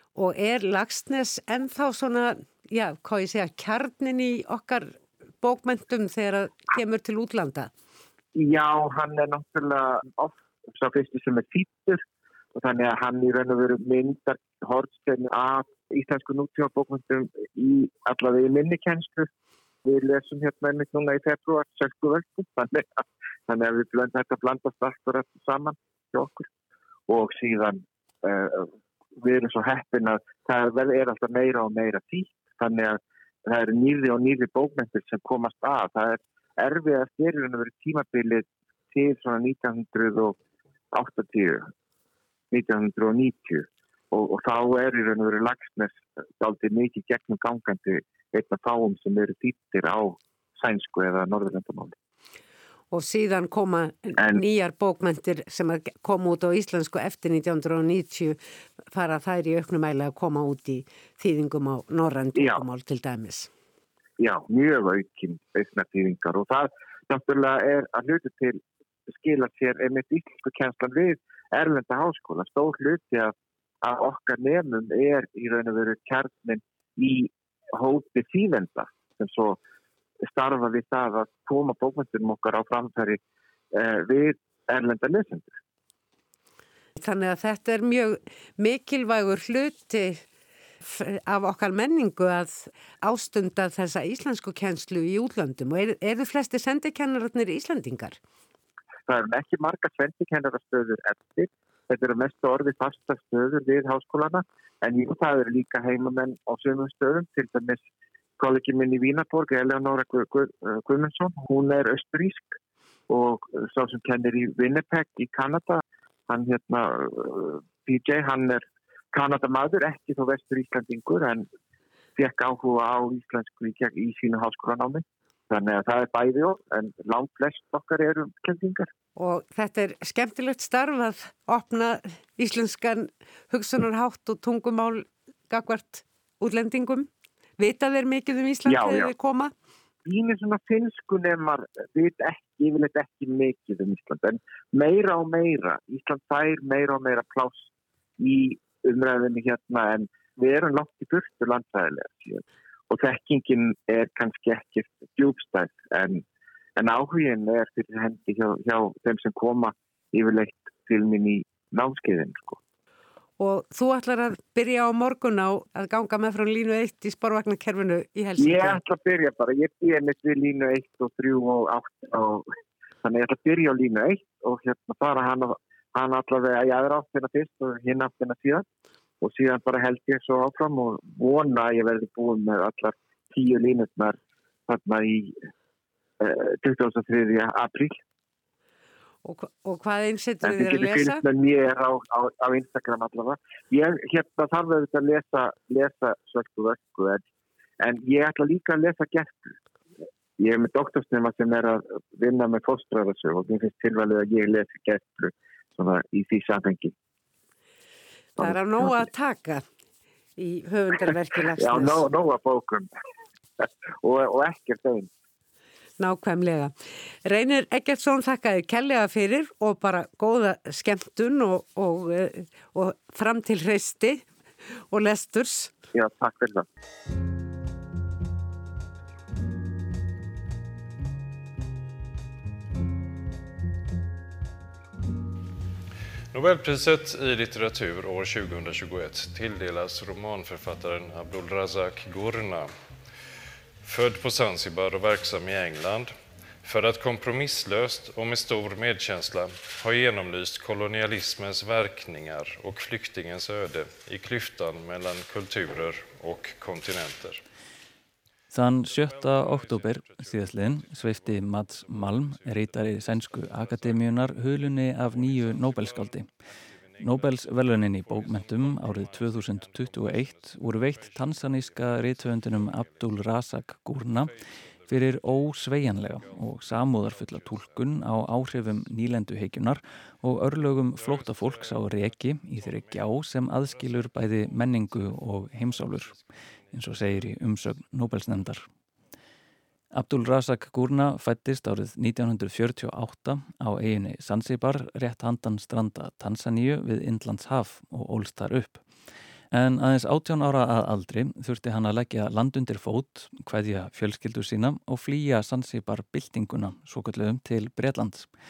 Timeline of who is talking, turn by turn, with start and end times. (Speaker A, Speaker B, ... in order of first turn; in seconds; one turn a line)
Speaker A: 0.2-7.7
Speaker B: 8.3-12.0
Speaker B: 12.6-19.3
Speaker B: 19.9-26.5
Speaker B: 27.1-40.4
Speaker B: 40.9-41.7
Speaker B: 42.5-52.0
Speaker A: 52.9-63.5
Speaker B: 64.2-79.6
Speaker B: 80.2-83.2
Speaker B: 83.7-85.5
Speaker A: 87.0-90.2
Speaker A: 90.8-98.2
Speaker B: 99.1-107.8
Speaker B: 108.4-112.5
Speaker B: 113.1-121.5
Speaker B: 122.2-128.9
Speaker A: 129.2-139.5
Speaker B: 138.7-139.1
Speaker B: 140.1-147.7
Speaker B: 148.2-156.2
Speaker B: 156.8-162.6
Speaker A: 163.4-168.8
Speaker B: 168.4-172.5
Speaker B: 173.0-178.7
Speaker B: 179.2-185.4
Speaker B: 186.2-188.0
Speaker A: 189.2-191.2
Speaker B: 190.4-197.2
Speaker B: 197.8-199.6
Speaker B: 200.4-206.9
Speaker B: 208.4-209.1
Speaker A: 208.4-209.6
Speaker A: 210.4-212.1
Speaker B: 211.6-212.9
Speaker B: 213.6-215.1
Speaker A: 216.0-216.7
Speaker A: 217.2-224.3
Speaker A: 224.9-225.7
Speaker B: 225.9-226.7
Speaker C: 236.3-242.7
Speaker C: 243.8-257.4
Speaker D: 258.5-266.3
Speaker C: 258.8-273.4
Speaker D: 267.0-274.3
Speaker C: 273.9-278.2
Speaker D: 274.9-286.2
Speaker C: 280.9-288.5
Speaker D: 286.7-288.7
Speaker D: 289.9-298.8
Speaker D: 299.5-308.3